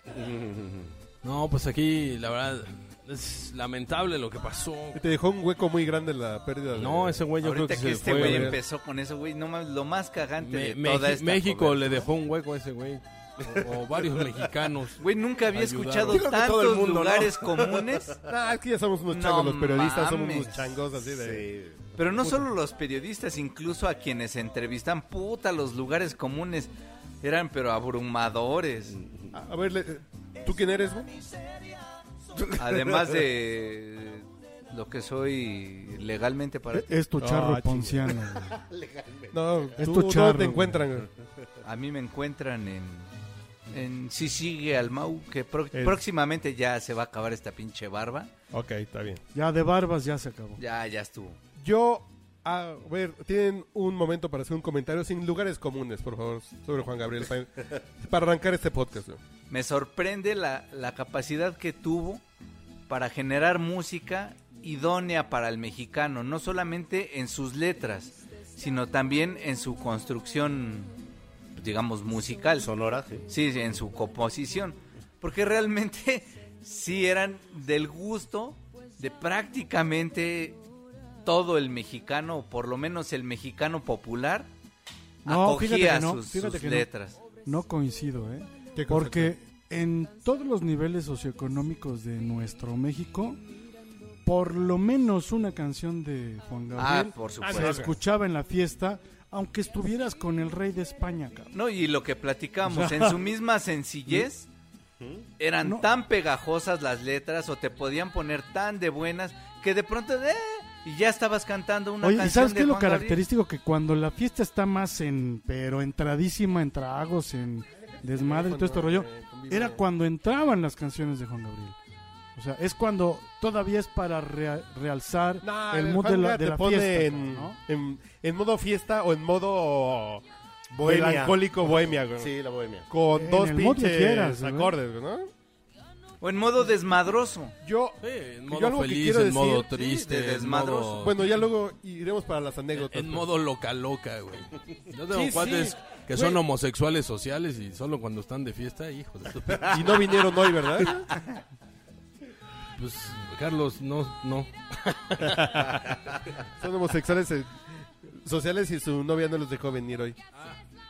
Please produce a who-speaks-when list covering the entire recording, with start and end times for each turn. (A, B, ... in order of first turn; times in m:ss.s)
0:00.1-0:00.9 A
0:01.2-0:05.0 B
0:05.0-0:07.3 C
0:06.8-0:08.6 B
0:07.4-0:12.0 D
0:08.0-0:08.6 C
0:10.4-0:16.3 B
0:13.5-0:14.4 A
0:15.0-0:18.2 D
0:16.1-0:18.1 A
0:18.3-0:21.5 C
0:19.1-0:20.8 D
0:21.0-0:21.9 A
0:22.0-0:26.7 D
0:27.2-0:29.0 D
0:28.9-0:29.4 A
0:29.3-0:31.1 C
0:32.4-0:33.2 A
0:32.6-0:36.9 D
0:36.7-0:38.6 E
0:37.2-0:38.1 C
0:38.4-0:39.8 A
0:39.3-0:41.1 C
0:39.8-0:40.8 E
0:41.6-0:43.1 D
0:43.7-0:48.3 D
0:45.8-0:46.0 C
0:48.5-0:49.2 C
0:49.3-0:50.6 E
0:50.6-0:51.4 D
0:51.6-0:59.2 C
0:59.5-1:02.2 D
1:02.9-1:10.9 D
1:11.6-1:12.7 D
1:12.6-1:13.2 A
1:13.3-1:20.6 D
1:21.2-1:24.5 D
1:25.2-1:26.9 E
1:25.2-1:27.2 D
1:27.5-1:33.4 E
1:28.8-1:29.3 C
1:34.2-1:41.5 E
1:36.8-1:37.8 D
1:37.4-1:37.9 C
1:41.5-1:44.5 D
1:42.6-1:43.2 E
1:45.0-1:45.3 A
1:45.4-1:53.2 D
1:52.0-2:01.8 E
1:58.2-1:59.8 C
2:02.4-2:07.6 E
2:05.4-2:10.2 C
2:10.7-2:12.9 A
2:10.8-2:12.3 C
2:12.9-2:15.3 C
2:13.1-2:14.8 E
2:16.2-2:17.6 D
2:17.6-2:20.0 C
2:18.0-2:21.3 B
2:20.0-2:21.1 D
2:21.0-2:23.3 C
2:22.8-2:30.0 B
2:25.1-2:26.4 C
2:29.7-2:31.1 C
2:32.8-2:35.8 B
2:35.2-2:35.9 C
2:36.6-2:40.2 C